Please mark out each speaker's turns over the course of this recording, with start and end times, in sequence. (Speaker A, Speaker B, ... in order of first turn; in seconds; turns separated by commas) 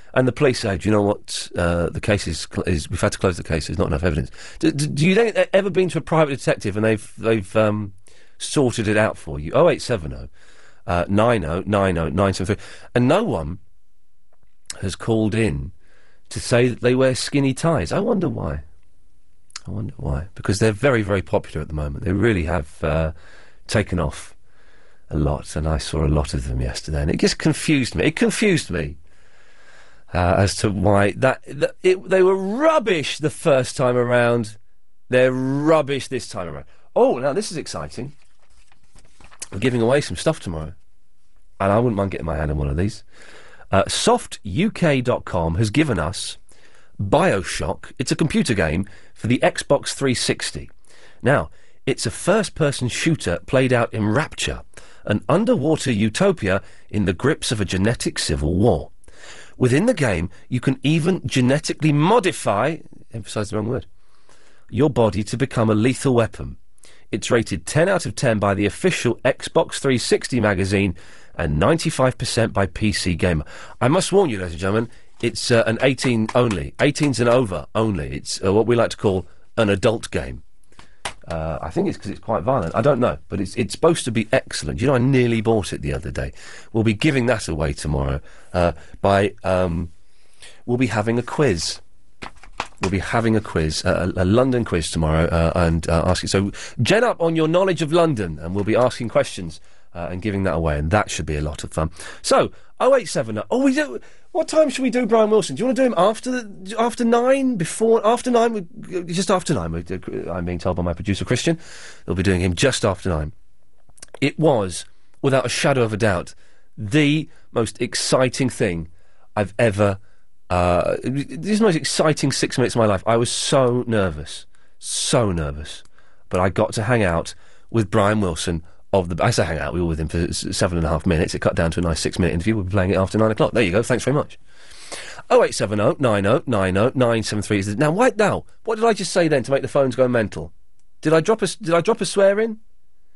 Speaker A: 0.1-10.3, Speaker A: 10.9-13.6, Speaker A: 14.8-15.7, Speaker A: 16.3-18.6, Speaker A: 19.7-23.1, Speaker A: 23.7-24.4, Speaker A: 25.1-29.0, Speaker A: 30.1-34.6, Speaker A: 35.1-38.1, Speaker A: 39.5-40.8, Speaker A: 41.6-43.0, Speaker A: 43.7-46.4, Speaker A: 47.0-50.7, Speaker A: 51.2-58.9, Speaker A: 59.6-63.9, Speaker A: 64.7-66.6, Speaker A: 67.1-80.4, Speaker A: 81.3-89.9, Speaker A: 90.7-91.8, Speaker A: 92.8-113.3, Speaker A: 114.2-120.0, Speaker A: 120.5-134.4, Speaker A: 135.3-142.6